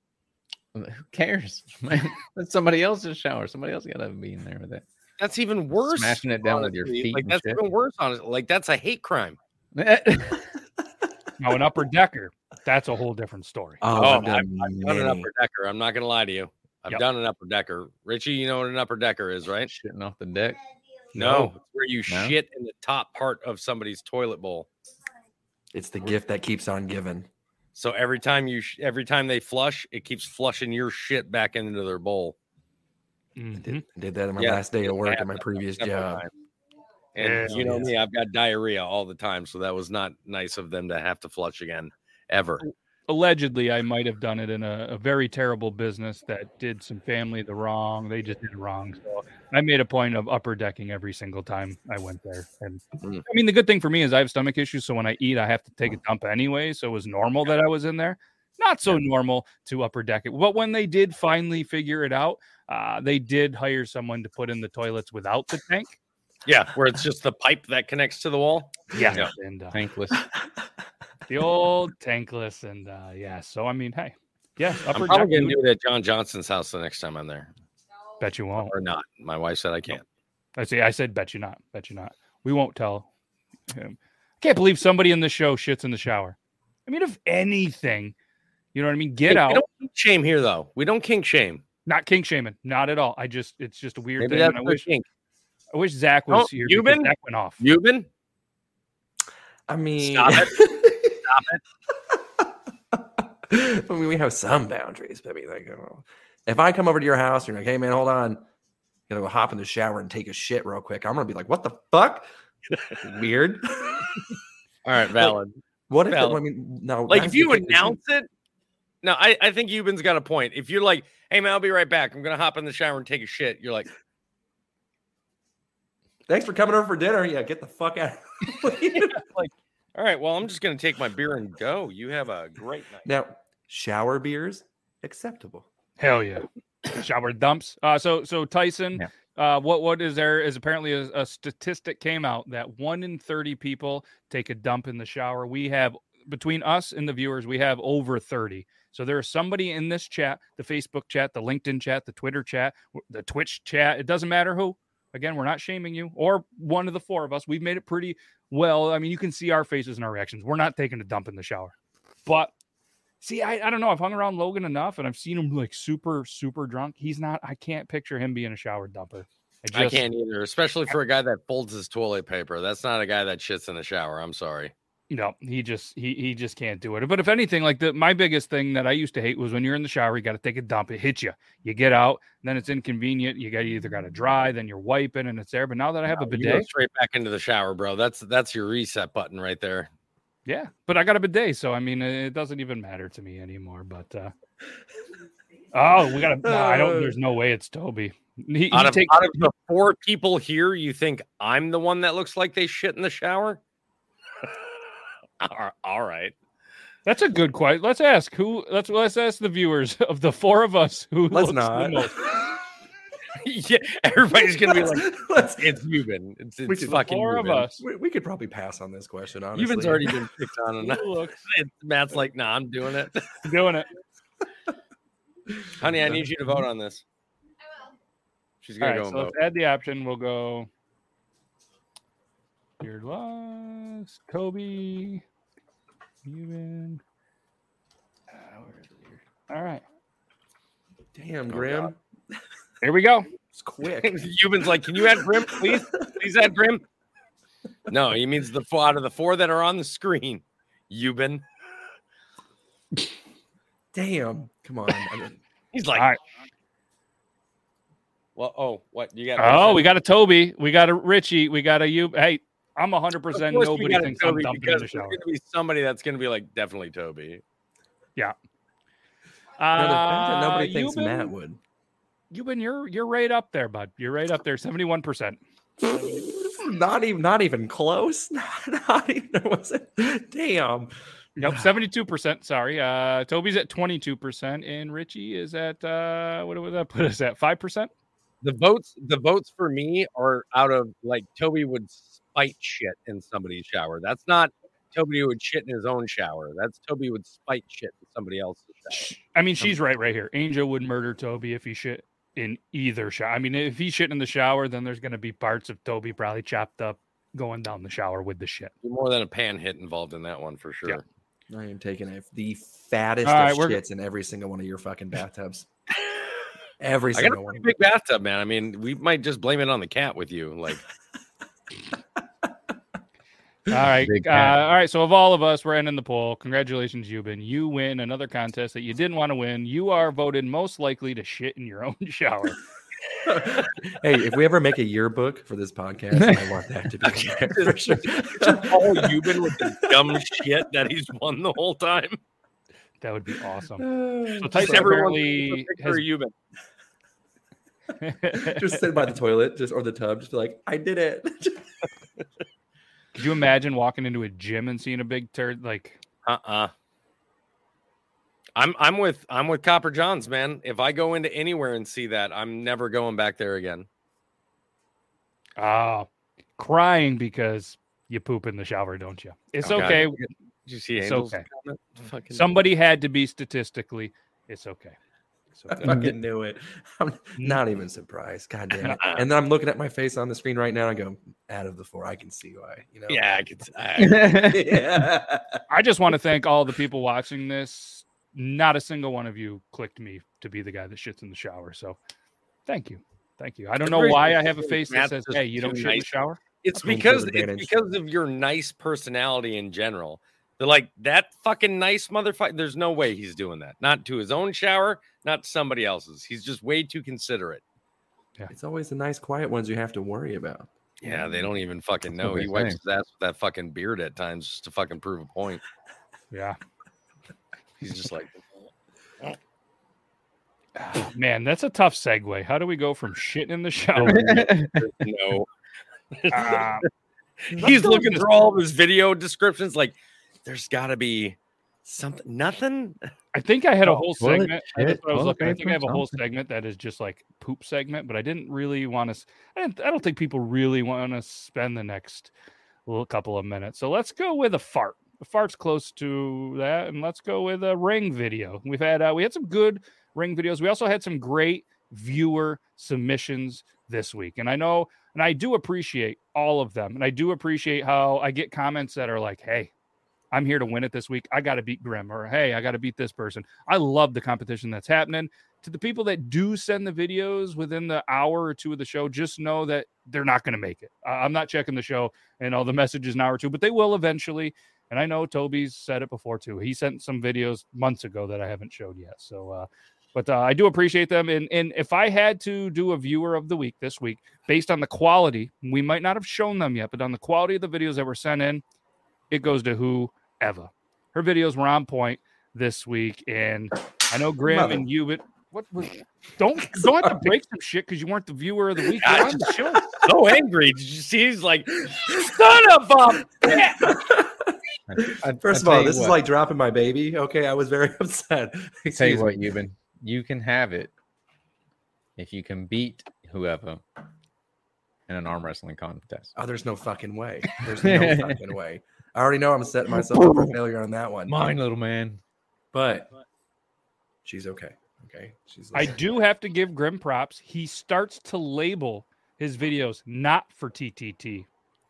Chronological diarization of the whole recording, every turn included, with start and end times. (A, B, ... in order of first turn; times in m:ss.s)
0:00.7-0:04.8 A
0:05.2-0:09.4 B
0:05.8-0:07.6 A
0:09.8-0:10.4 A
0:11.4-0:13.8 C
0:13.8-0:15.3 D
0:14.0-0:19.7 B
0:19.7-0:20.6 A
0:21.2-0:21.5 D
0:21.2-0:24.7 B
0:22.1-0:22.3 A
0:25.7-0:27.3 D
0:27.7-0:32.3 B
0:33.4-0:33.8 C
0:33.6-0:36.2 D
0:34.4-0:36.3 B
0:37.1-0:42.6 B
0:37.2-0:37.9 C
0:37.5-0:37.8 D
0:42.6-1:05.9 C
1:06.4-1:09.3 B
1:08.9-1:09.8 C
1:09.7-1:10.2 A
1:11.3-1:15.6 C
1:14.9-1:17.5 B
1:18.2-1:18.7 C
1:18.6-1:20.0 B
1:20.6-1:23.1 C
1:23.7-1:28.1 C
1:28.7-1:29.6 C
1:29.3-1:31.6 B
1:31.9-1:34.9 C
1:34.2-1:35.0 B
1:35.7-1:37.6 C
1:36.3-1:38.1 B
1:39.7-1:41.1 D
1:40.0-1:40.5 B
1:41.2-1:41.6 B
1:42.9-1:48.4 D
1:49.1-1:52.2 D
1:53.0-1:54.0 D
1:54.8-1:55.6 B
1:55.9-1:58.0 D
1:56.1-1:56.4 B
1:57.1-1:58.3 B
1:59.0-2:03.9 B
2:06.3-2:09.1 D
2:08.9-2:13.1 B
2:13.0-2:15.7 D
2:16.0-2:41.7 C
2:42.2-2:42.5 C
2:43.2-2:50.0 C
2:49.7-2:54.7 B
2:55.1-3:06.7 C
3:06.1-3:09.9 B
3:10.4-3:14.3 C
3:15.7-3:19.2 C
3:16.3-3:17.1 D
3:18.7-3:23.6 B
3:25.4-3:26.3 B
3:27.0-3:32.1 C
3:31.3-3:32.0 D
3:33.4-3:37.8 B
3:34.7-3:35.7 D
3:36.7-3:37.0 D
3:36.8-3:37.7 C
3:37.8-3:40.1 D
3:39.6-3:43.2 B
3:40.8-3:41.4 C
3:43.4-3:43.9 C
3:45.5-3:46.2 D
3:45.8-3:47.0 B
3:48.6-3:49.3 B
3:48.8-3:50.7 C
3:52.8-3:55.2 C
3:56.2-3:57.0 C
3:58.3-3:59.8 C
4:01.1-4:02.0 D
4:01.5-4:01.9 B
4:02.8-4:03.3 C
4:03.5-4:04.2 D
4:04.0-4:06.8 B
4:07.9-4:11.4 B
4:13.9-4:15.4 D
4:15.7-4:16.1 B
4:18.4-4:19.9 B
4:19.4-4:25.2 C
4:23.4-4:27.4 B
4:29.6-4:31.3 C
4:29.7-4:31.6 D
4:32.3-4:35.4 C
4:35.8-4:40.9 D
4:41.4-4:47.9 C
4:41.4-4:41.7 D
4:48.4-4:59.1 B
4:58.9-5:08.7 C
5:08.8-5:11.0 B
5:11.5-5:15.7 D
5:13.2-5:13.8 C
5:16.8-5:17.7 D
5:17.1-5:20.8 B
5:23.7-5:32.6 C
5:23.8-5:24.6 A
5:33.3-5:39.7 D
5:37.0-5:42.2 B
5:43.0-5:43.9 C
5:43.8-5:45.0 D
5:44.4-5:46.0 C
5:44.6-5:46.3 B
5:48.0-5:48.8 C
5:48.4-5:51.6 D
5:53.1-5:56.0 C
5:56.2-5:56.7 B
5:58.6-6:03.8 B
6:05.6-6:10.2 C
6:09.6-6:12.5 B
6:11.0-6:11.4 C
6:12.3-6:15.0 C
6:15.5-6:15.9 C
6:15.7-6:23.3 D
6:23.1-6:24.5 B
6:24.0-6:24.6 A
6:24.4-6:25.4 D
6:25.7-6:32.0 C
6:32.6-6:36.4 C
6:33.8-6:36.1 B
6:36.6-6:47.6 B
6:36.8-6:37.7 D
6:48.5-6:50.7 D
6:51.0-6:55.6 B
6:52.1-6:52.8 A
6:56.3-6:56.6 C
6:57.8-6:58.4 B
7:00.8-7:04.4 C
7:04.1-7:04.8 A
7:04.8-7:05.5 B
7:06.2-7:06.7 B
7:06.3-7:06.8 C
7:07.5-7:13.0 B
7:07.6-7:08.4 C
7:13.3-7:22.3 C
7:13.9-7:16.1 A
7:22.9-7:39.7 C
7:40.3-8:08.6 C
8:09.3-8:19.9 C
8:14.5-8:14.8 D
8:16.8-8:17.3 D
8:19.0-8:23.8 B
8:23.4-8:24.6 D
8:24.9-8:26.2 A
8:25.3-8:29.4 D
8:28.9-8:30.9 A
8:32.2-8:33.8 A
8:35.1-8:36.3 A
8:36.4-8:41.4 D
8:37.8-8:38.4 A
8:40.0-8:40.5 A
8:41.3-8:42.2 A
8:42.7-8:43.1 D
8:44.2-8:46.0 D
8:45.7-8:51.5 C